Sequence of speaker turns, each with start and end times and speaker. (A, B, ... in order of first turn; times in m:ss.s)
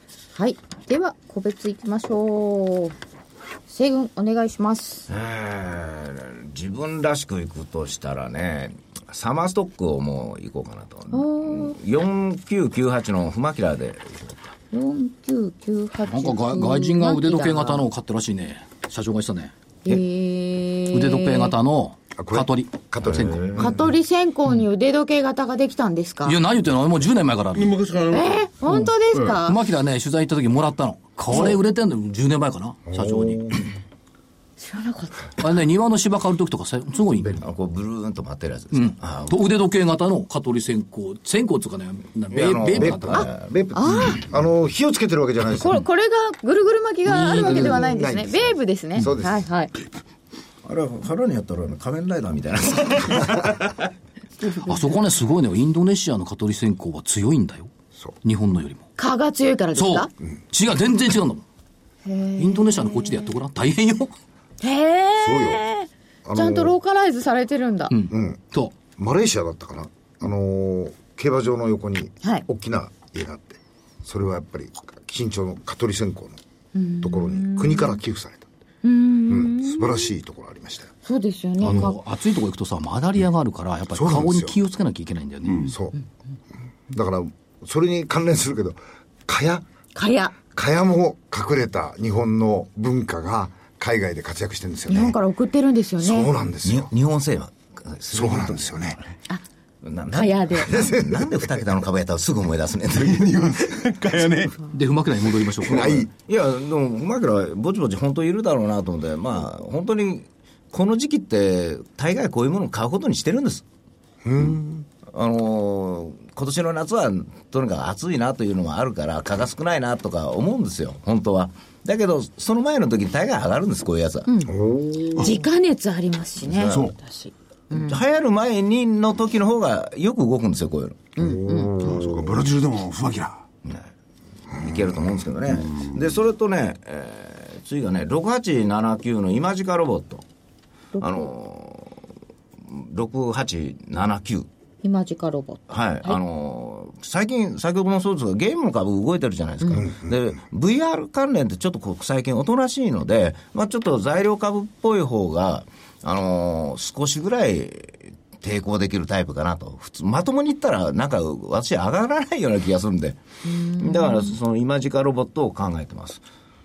0:00.3-0:03.0 A
0:03.7-0:05.1 A
0:05.1-0:14.5 B
0:11.1-0:11.8 A
0:14.7-0:17.8 A
0:16.1-0:19.5 C
0:19.8-0:21.6 A
0:20.9-0:23.6 C
0:22.2-0:23.8 D
0:23.2-0:23.7 B
0:23.6-0:26.4 A
0:26.2-0:27.8 C
0:27.6-0:28.5 E
0:28.1-0:29.6 A
0:28.6-0:33.6 C
0:29.1-0:29.4 E
0:32.9-0:33.6 D
0:34.6-0:35.3 A
0:35.4-0:37.4 C
0:37.4-0:39.4 B
0:38.7-0:43.3 C
0:42.3-0:43.6 B
0:42.8-0:45.8 D
0:43.7-0:44.3 A
0:45.5-0:49.7 A
0:47.1-0:48.0 C
0:47.1-0:49.4 D
0:50.6-0:53.8 B
0:54.4-0:55.0 A
0:54.6-0:57.7 C
0:58.2-0:58.9 C
0:59.0-1:00.1 A
0:59.8-1:01.4 C
1:02.0-1:03.3 A
1:02.4-1:04.1 C
1:04.6-1:08.0 A
1:05.2-1:05.7 D
1:06.2-1:06.8 D
1:07.9-1:08.7 C
1:08.1-1:08.4 D
1:09.0-1:16.4 D
1:16.7-1:18.0 A
1:17.0-1:18.5 D
1:18.8-1:20.1 A
1:19.3-1:20.9 D
1:21.0-1:22.0 A
1:21.6-1:25.8 C
1:21.6-1:21.9 D
1:23.9-1:24.6 D
1:25.7-1:26.0 D
1:26.9-1:29.7 D
1:30.0-1:30.4 A
1:30.5-1:35.2 D
1:34.9-1:36.3 A
1:36.0-1:36.9 D
1:36.6-1:39.0 B
1:38.1-1:39.0 D
1:39.8-1:43.5 B
1:40.1-1:40.9 A
1:40.6-1:41.5 D
1:43.0-1:44.6 E
1:44.7-1:46.1 C
1:45.6-1:46.1 D
1:45.7-1:53.6 B
1:54.2-1:54.9 D
1:55.1-2:04.3 B
2:04.3-2:04.6 A
2:04.5-2:05.3 D
2:05.1-2:08.0 A
2:06.6-2:07.0 E
2:07.7-2:11.1 B
2:11.2-2:11.8 A
2:11.2-2:12.3 D
2:11.8-2:13.4 E
2:13.6-2:13.9 B
2:14.5-2:20.2 B
2:21.0-2:21.3 A
2:21.0-2:22.0 B
2:22.6-2:24.5 B
2:24.8-2:26.2 A
2:25.7-2:46.2 B
2:29.6-2:29.9 A
2:43.5-2:44.4 A